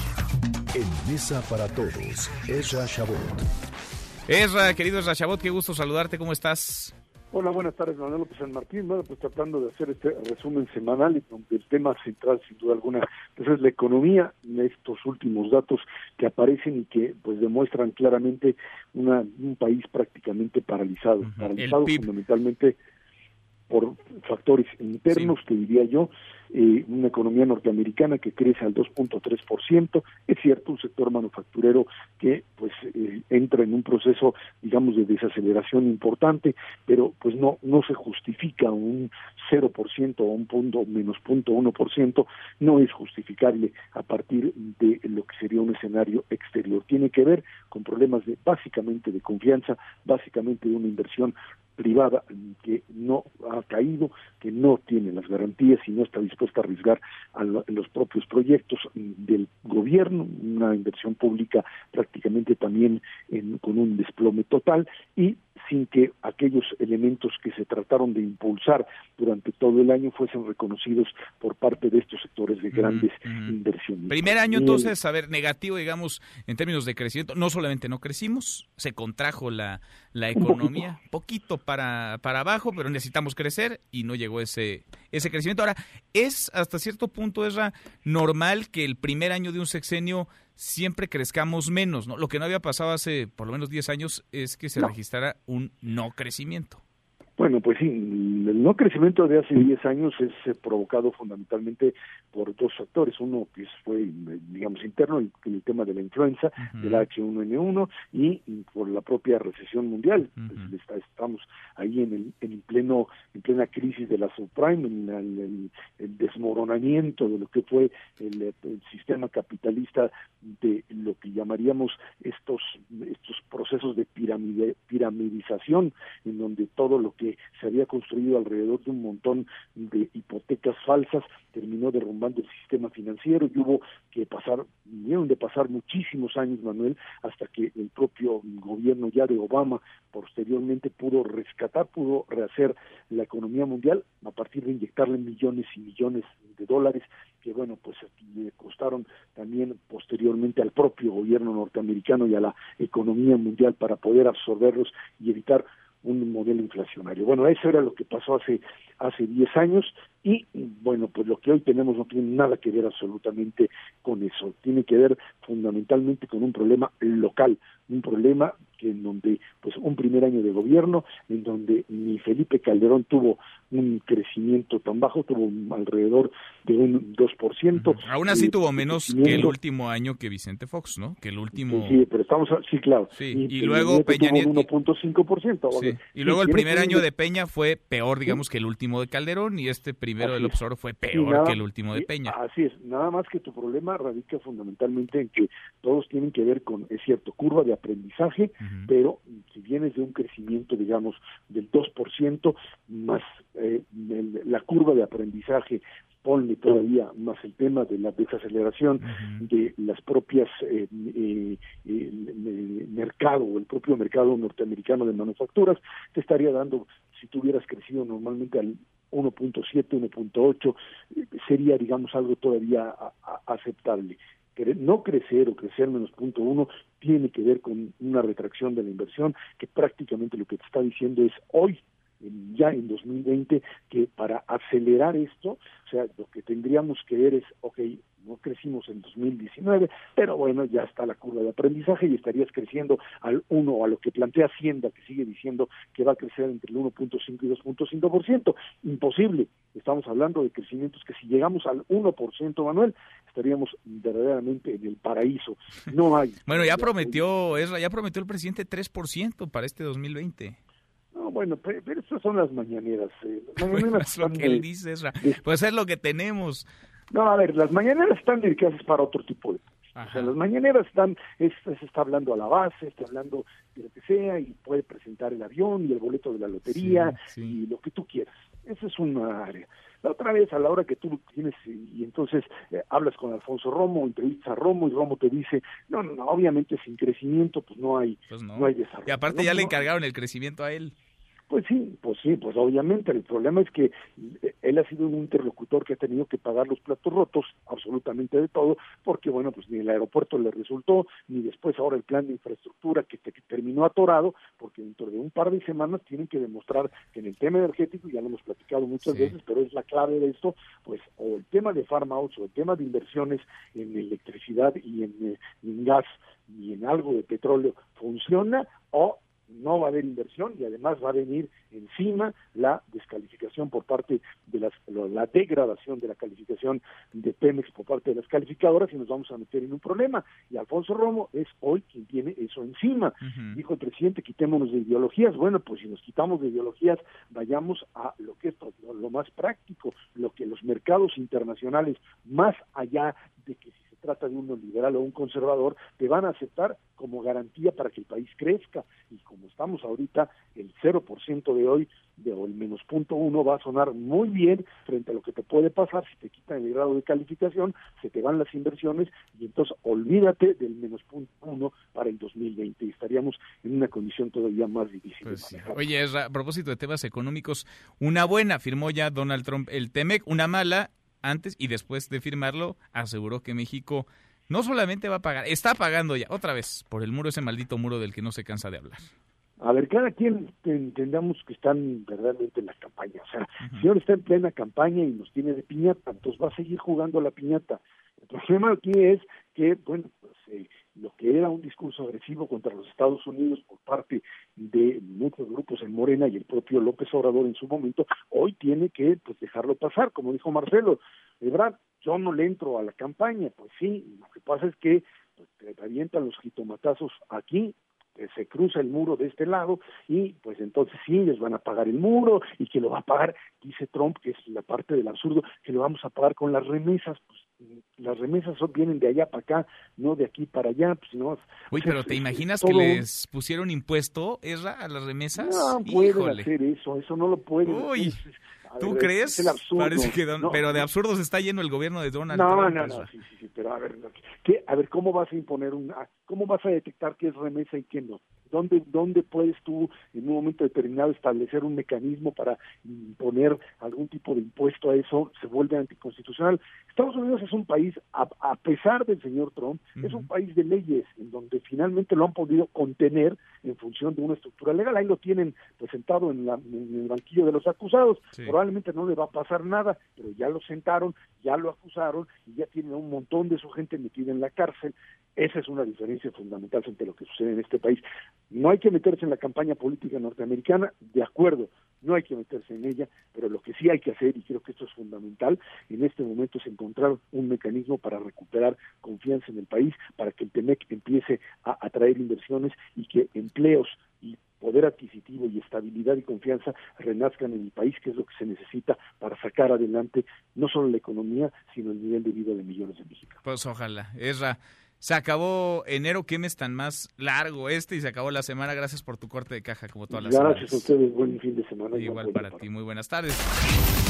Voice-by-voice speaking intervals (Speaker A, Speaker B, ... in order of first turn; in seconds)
Speaker A: 0.7-3.4
Speaker B: 4.3-6.9, 21.2-22.0, 72.7-73.6, 74.1-96.8, 106.6-107.0, 110.4-110.7, 177.8-182.0, 183.1-184.7, 185.7-192.3, 198.6-198.9, 209.0-209.5, 256.4-260.6, 263.6-266.6, 269.9-270.3, 276.6-277.6, 288.3-290.9, 309.0-309.3, 333.2-333.6, 365.2-379.1, 421.7-426.5, 427.6-428.2, 428.8-433.1, 450.0-450.3, 493.4-500.9, 501.9-503.5
Speaker C: 7.3-22.8, 23.7-74.9, 80.3-80.8, 97.4-179.5, 181.6-187.1, 190.2-190.6, 191.1-257.3, 261.1-264.6, 267.1-289.8, 291.5-365.9, 379.6-423.0, 425.3-430.8, 432.3-493.4, 500.1-502.6